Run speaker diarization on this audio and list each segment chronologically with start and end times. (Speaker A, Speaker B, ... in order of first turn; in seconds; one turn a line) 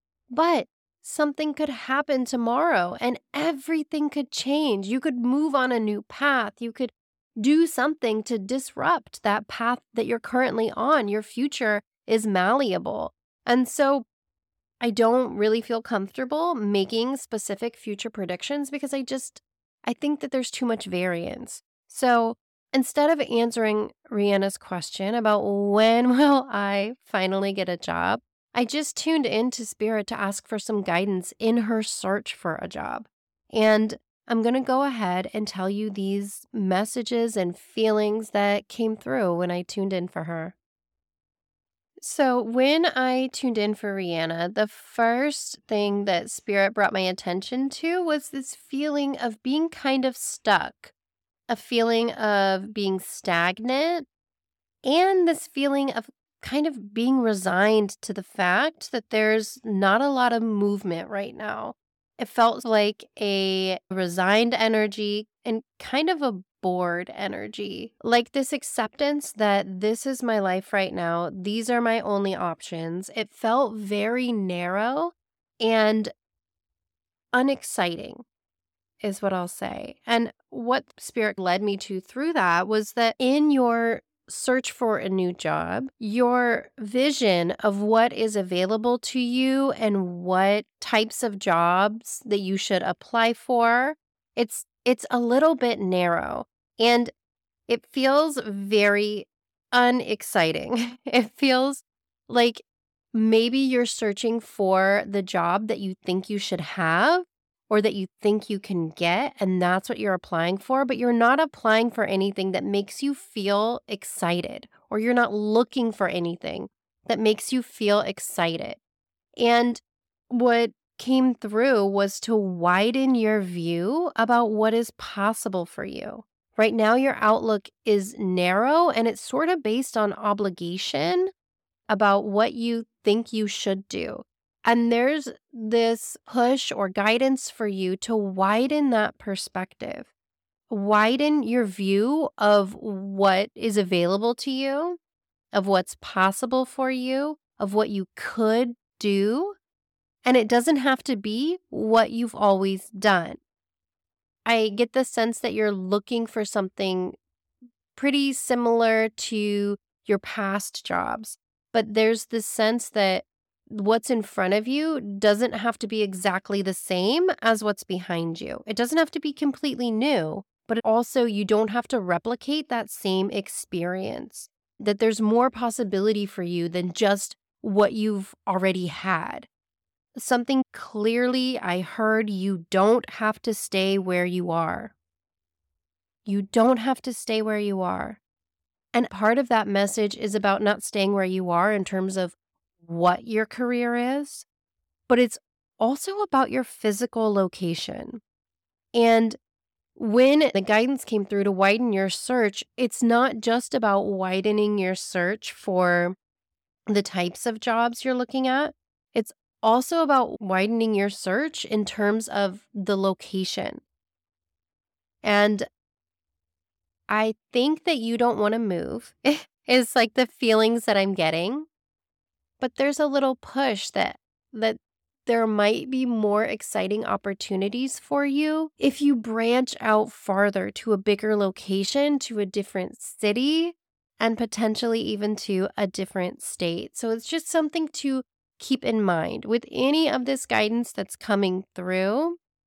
Speaker A: 0.3-14.1
Speaker A: 14.8-40.5
Speaker A: 42.0-50.9
Speaker A: 51.5-54.1
Speaker A: 54.8-76.1
Speaker A: 77.3-78.2
Speaker A: 79.0-97.1
Speaker A: 97.7-118.8
Speaker A: 119.4-131.3
Speaker A: 131.9-140.1
Speaker A: 140.7-145.0
Speaker A: 145.5-149.6
Speaker A: 150.2-153.4
Speaker A: 154.4-157.2
Speaker A: 157.9-179.5
Speaker A: 180.2-184.9
Speaker A: 186.2-188.2
Speaker A: 188.9-194.5
Speaker A: 195.1-198.2
Speaker A: 198.9-199.4
Speaker A: 200.0-206.2
Speaker A: 206.9-213.8
Speaker A: 215.2-215.7
Speaker A: 217.1-221.7
Speaker A: 222.6-242.4